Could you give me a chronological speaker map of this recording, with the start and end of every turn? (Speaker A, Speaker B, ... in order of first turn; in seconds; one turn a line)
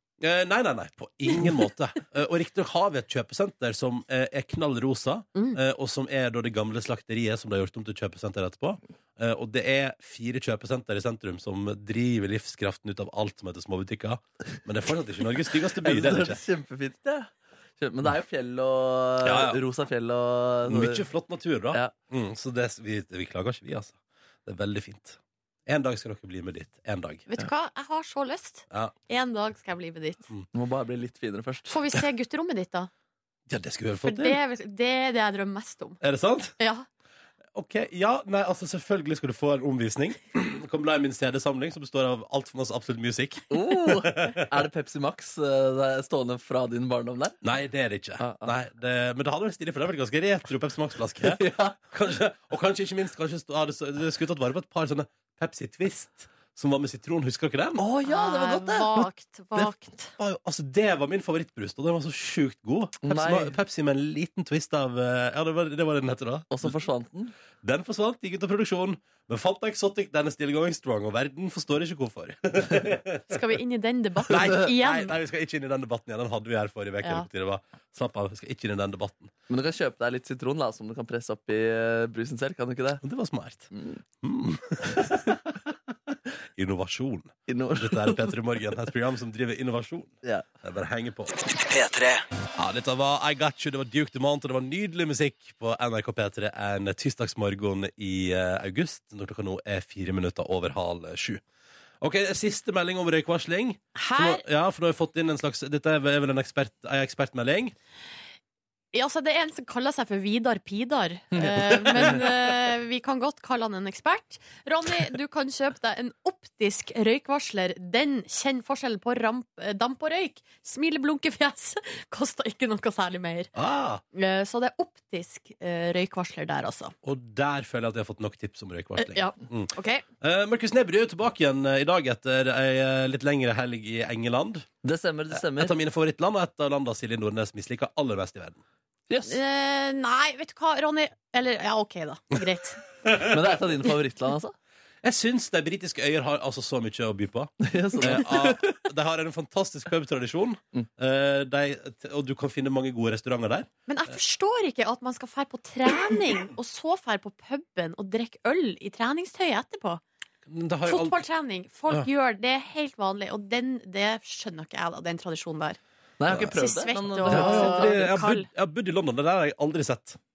Speaker A: 0.2-16.4
Speaker B: 15.8-21.0
Speaker A: 19.2-19.6
Speaker A: 20.6-27.2
Speaker C: 27.3-30.3
Speaker B: 30.5-31.8
Speaker C: 31.7-32.9
Speaker A: 33.5-34.4
Speaker C: 34.0-36.0
Speaker A: 36.0-36.5
Speaker C: 36.6-36.9
Speaker A: 37.5-44.5
Speaker B: 43.5-47.4
Speaker A: 47.4-57.8
Speaker B: 48.2-48.5
Speaker B: 51.2-51.8
Speaker B: 57.8-59.0
Speaker C: 58.0-60.1
Speaker A: 59.5-66.7
Speaker B: 63.0-63.5
Speaker B: 66.5-67.3
Speaker A: 67.6-73.4
Speaker C: 73.3-75.1
Speaker A: 74.3-79.3
Speaker C: 77.0-77.3
Speaker B: 79.5-83.0
Speaker A: 83.0-83.7
Speaker B: 83.7-84.0
Speaker A: 84.2-85.5
Speaker A: 86.6-91.3
Speaker B: 87.5-88.4
Speaker B: 91.6-92.1
Speaker A: 92.6-101.4
Speaker A: 102.0-107.7
Speaker C: 104.0-104.4
Speaker C: 108.9-123.5
Speaker B: 111.3-112.1
Speaker A: 111.4-112.4
Speaker A: 123.5-124.0
Speaker C: 124.1-126.9
Speaker A: 127.0-134.7
Speaker C: 129.0-130.0
Speaker B: 134.8-135.7
Speaker A: 135.3-138.6
Speaker B: 139.1-139.4
Speaker C: 139.3-142.8
Speaker A: 143.0-143.4
Speaker B: 143.3-144.5
Speaker A: 145.0-153.7
Speaker B: 147.6-148.8
Speaker C: 153.9-160.0
Speaker A: 160.4-161.2
Speaker C: 160.8-165.8
Speaker B: 166.2-168.0
Speaker A: 166.3-166.6
Speaker C: 166.4-168.5
Speaker A: 167.2-170.2